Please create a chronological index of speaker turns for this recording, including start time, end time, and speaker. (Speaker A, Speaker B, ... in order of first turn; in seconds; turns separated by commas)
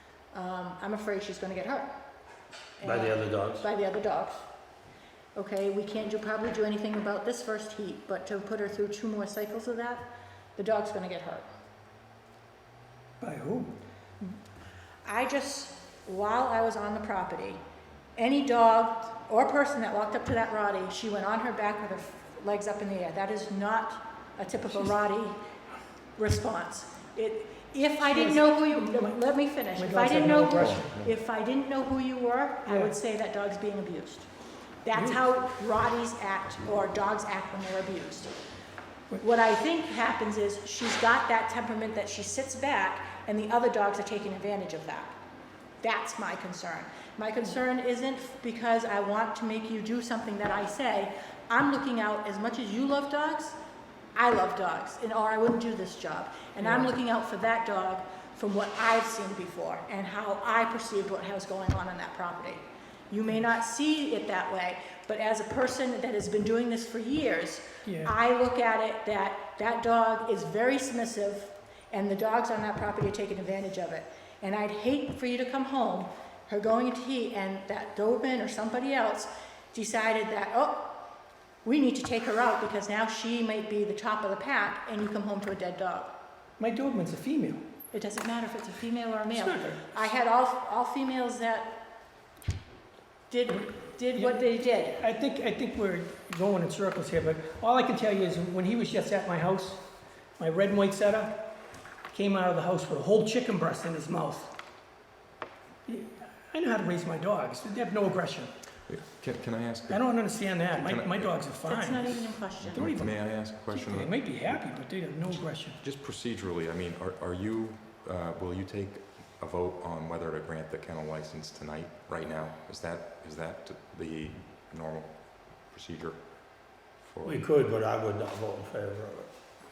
Speaker A: 0.3-1.9, Speaker A: 2.8-4.4, Speaker B: 2.8-3.6, Speaker A: 5.3-11.5, Speaker C: 13.2-13.8, Speaker A: 15.1-17.6, Speaker A: 18.2-25.4, Speaker A: 26.2-34.3, Speaker C: 28.1-28.4, Speaker C: 29.8-31.0, Speaker D: 30.7-31.1, Speaker C: 32.7-32.9, Speaker A: 34.8-38.3, Speaker C: 34.9-35.2, Speaker A: 39.2-45.2, Speaker A: 45.8-53.6, Speaker A: 54.2-81.0, Speaker C: 56.6-57.0, Speaker C: 67.8-68.1, Speaker A: 81.6-86.1, Speaker C: 86.6-87.6, Speaker A: 87.9-91.7, Speaker C: 89.3-89.9, Speaker A: 93.3-95.0, Speaker C: 94.2-99.8, Speaker C: 100.4-101.4, Speaker C: 102.1-104.5, Speaker C: 105.9-108.5, Speaker D: 108.9-111.4, Speaker C: 109.9-115.8, Speaker A: 111.7-112.9, Speaker D: 112.6-127.4, Speaker B: 127.2-129.3